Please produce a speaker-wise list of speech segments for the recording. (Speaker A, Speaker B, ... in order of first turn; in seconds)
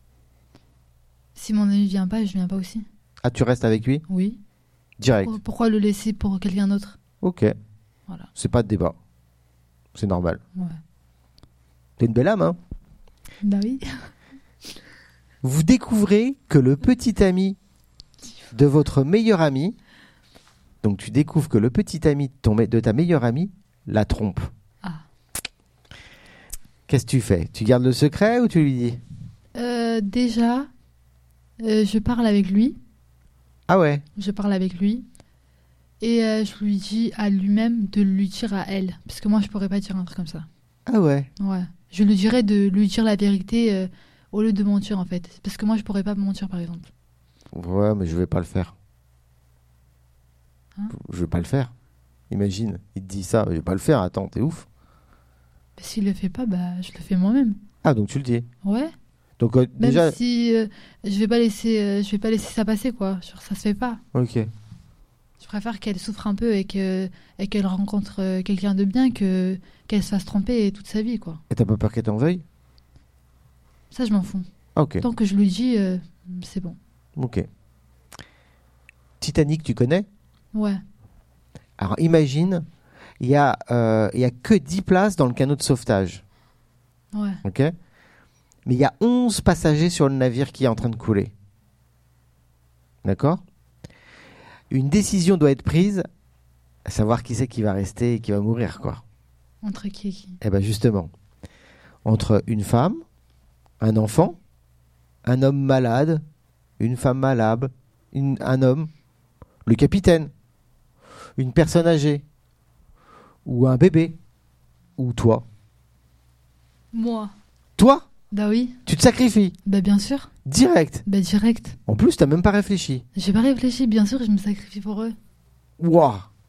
Speaker A: 1.4-2.9, 4.1-4.4, 5.2-7.0, 13.4-13.9, 29.6-30.7, 31.6-32.8, 34.2-35.1, 36.0-40.5, 41.4-46.9, 55.8-57.6, 58.6-58.9, 59.8-64.0, 65.4-71.4, 73.9-74.5, 75.0-76.8, 80.5-80.8, 87.1-87.4, 99.6-100.4, 116.9-117.3, 118.3-118.8, 119.7-120.3, 121.1-121.8, 123.2-125.2
Speaker B: 3.2-4.0, 5.0-5.3, 7.2-7.5, 8.4-8.9, 9.9-10.4, 12.0-12.6, 15.4-17.6, 18.5-19.8, 20.8-24.5, 26.9-29.0, 33.7-34.0, 40.9-41.3, 47.5-48.7, 50.9-51.7, 52.3-54.7, 57.8-58.5, 59.4-60.2, 64.1-64.5, 71.5-72.4, 74.8-75.0, 77.2-77.5, 79.2-80.1, 81.8-82.7, 83.2-86.2, 87.4-87.7, 88.7-91.3, 93.0-93.4, 94.7-96.1, 96.8-99.0, 100.4-101.1, 102.0-103.0, 103.8-104.4, 105.2-106.2, 106.8-108.9, 109.7-110.3, 111.4-112.2, 113.5-114.2, 115.0-115.5, 117.8-118.1, 118.9-119.6, 120.5-121.0, 121.9-123.0, 125.8-126.3